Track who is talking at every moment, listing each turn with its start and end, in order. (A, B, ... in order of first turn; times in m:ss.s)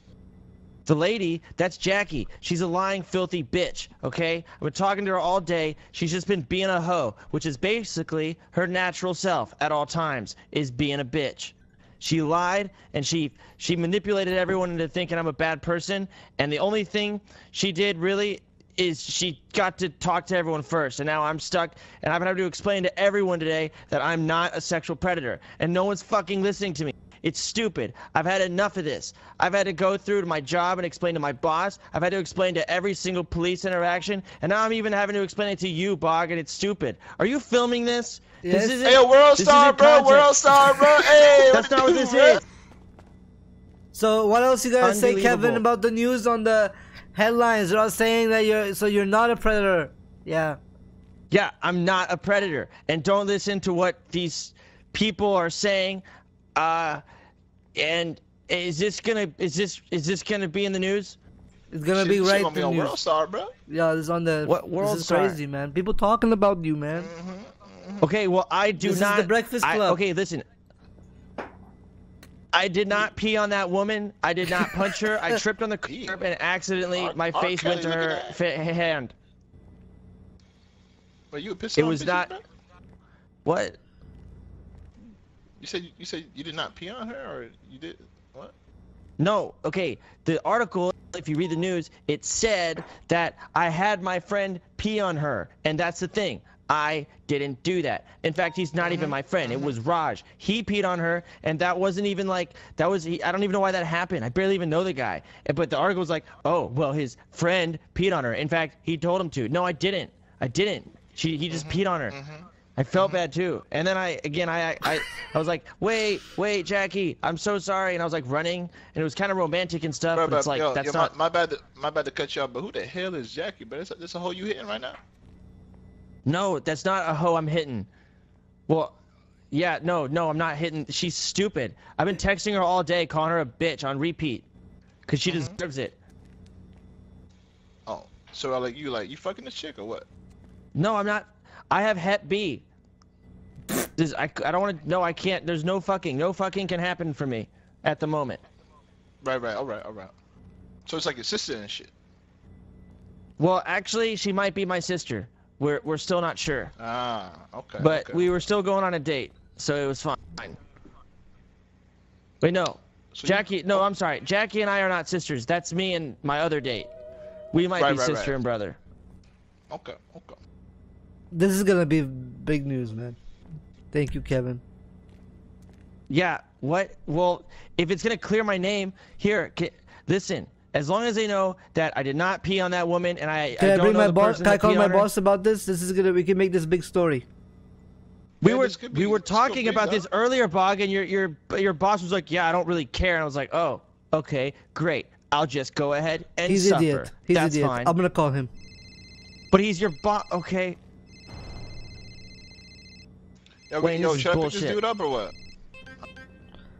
0:00.8-0:42.4 A
0:38.4-0:38.9 B
0:38.8-0:42.4 C
0:43.9-0:50.6 B
0:44.8-0:45.6 A
0:51.3-0:56.0 A
0:56.6-0:57.0 A
0:57.7-1:01.2 A
1:01.7-1:03.0 B
1:01.9-1:03.5 C
1:03.7-1:07.1 B
1:04.4-1:05.4 A
1:06.9-1:08.1 C
1:08.0-1:10.4 A
1:08.8-1:10.0 B
1:12.5-1:19.1 A
1:15.8-1:16.2 C
1:16.9-1:18.4 C
1:21.3-1:22.4 C
1:21.8-1:22.3 A
1:23.4-1:23.8 A
1:25.6-1:28.5 C
1:29.2-1:52.2 A
1:38.8-1:39.7 C
1:51.5-1:53.2 C
1:52.8-2:01.1 A
2:00.1-2:05.0 C
2:06.2-2:07.9 A
2:08.7-2:09.0 A
2:09.5-2:14.4 A
2:15.1-2:16.0 A
2:15.3-2:15.6 C
2:17.9-2:20.0 C
2:20.7-2:22.6 A
2:24.0-2:28.4 A
2:29.2-2:30.1 C
2:30.9-2:31.9 C
2:33.4-2:36.7 A
2:36.8-2:38.3 C
2:37.8-2:40.6 A
2:42.4-2:46.9 A
2:43.1-2:43.8 C
2:47.5-2:48.8 A
2:47.8-2:48.4 C
2:49.7-2:50.4 C
2:51.3-2:53.2 B
2:53.9-2:54.6 B
2:56.1-3:05.1 A
3:03.6-3:07.2 B
3:08.4-3:10.1 C
3:08.4-3:17.9 A
3:16.5-3:18.5 B
3:19.5-3:20.8 A
3:23.7-3:25.3 C
3:23.8-3:24.8 A